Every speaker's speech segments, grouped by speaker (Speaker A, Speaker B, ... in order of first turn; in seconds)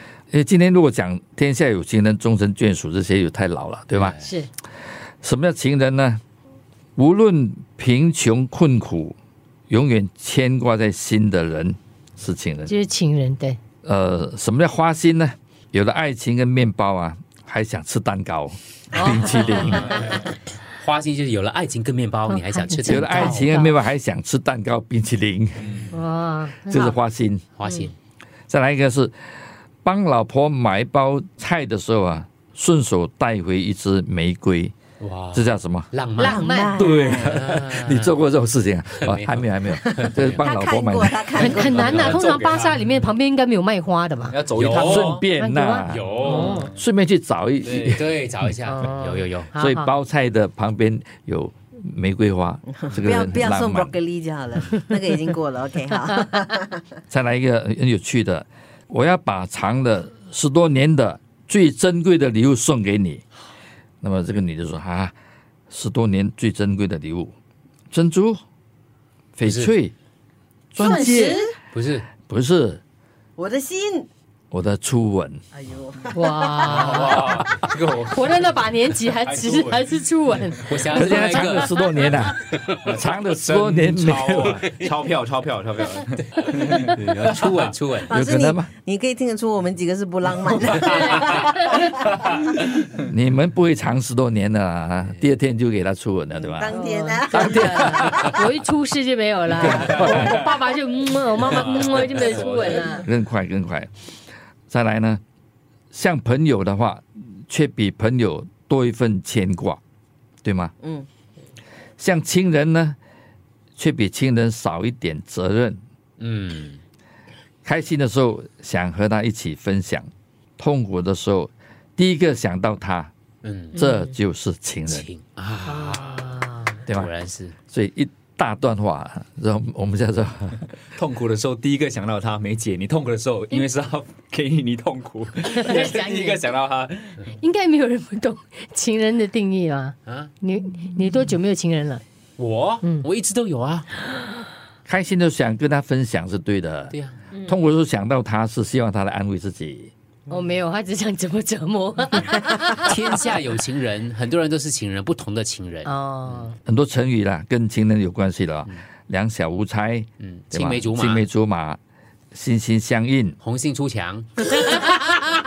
Speaker A: 0.3-4.2, 5.2-6.2, 7.0-9.1, 9.7-12.7, 13.8-20.0, 22.8-25.9, 26.6-27.5, 28.5-29.1, 29.8-34.7, 35.3-35.9, 36.8-41.5, 44.8-48.1, 49.5-54.0, 57.1-63.2, 64.0-65.1, 65.7-67.3, 67.9-68.4, 69.3-69.9, 70.7-71.4, 72.3-72.8, 74.5-75.4, 80.9-84.7, 88.1-88.7, 93.0-98.3, 99.5-100.4, 102.8-103.9, 104.7-105.2, 105.9-109.8, 110.4-110.7, 112.0-113.0, 113.8-115.8, 117.6-123.1, 123.7-125.1, 127.7-130.7, 144.8-149.9, 156.6-161.8, 162.3-163.4
Speaker B: 3.9-4.3, 19.4-23.5, 27.6-27.9, 35.0-36.4, 37.2-38.2, 39.0-40.5, 41.9-42.2, 44.5-45.2, 45.9-46.6, 47.9-49.5, 69.4-69.7, 71.7-72.0, 80.7-81.8, 82.5-82.8, 86.3-88.1, 116.2-116.8, 123.4-123.8, 124.9-127.5, 140.1-140.3, 142.4-143.9, 146.9-147.2, 152.8-156.5, 160.2-161.3, 163.4-164.3
Speaker C: 4.2-4.5, 12.7-13.6, 18.9-20.3, 22.3-23.8, 25.9-27.0, 36.2-36.9, 41.3-44.4, 45.2-46.7, 48.6-49.9, 70.8-71.4, 76.1-82.2, 90.8-91.8, 96.7-103.0, 123.8-124.1, 125.7-126.8, 135.6-136.4, 137.3-142.0, 150.3-153.1, 155.8-156.6
Speaker D: 36.2-37.4, 39.7-42.0, 52.7-56.8, 70.8-71.5, 73.4-74.1, 75.5-76.9, 88.1-91.8, 96.3-98.4, 110.8-111.1
Speaker E: 41.7-42.9, 44.3-45.2, 45.9-46.7, 47.6-48.0, 76.6-80.0, 82.8-87.7, 100.1-100.5, 101.5-102.8, 130.9-137.3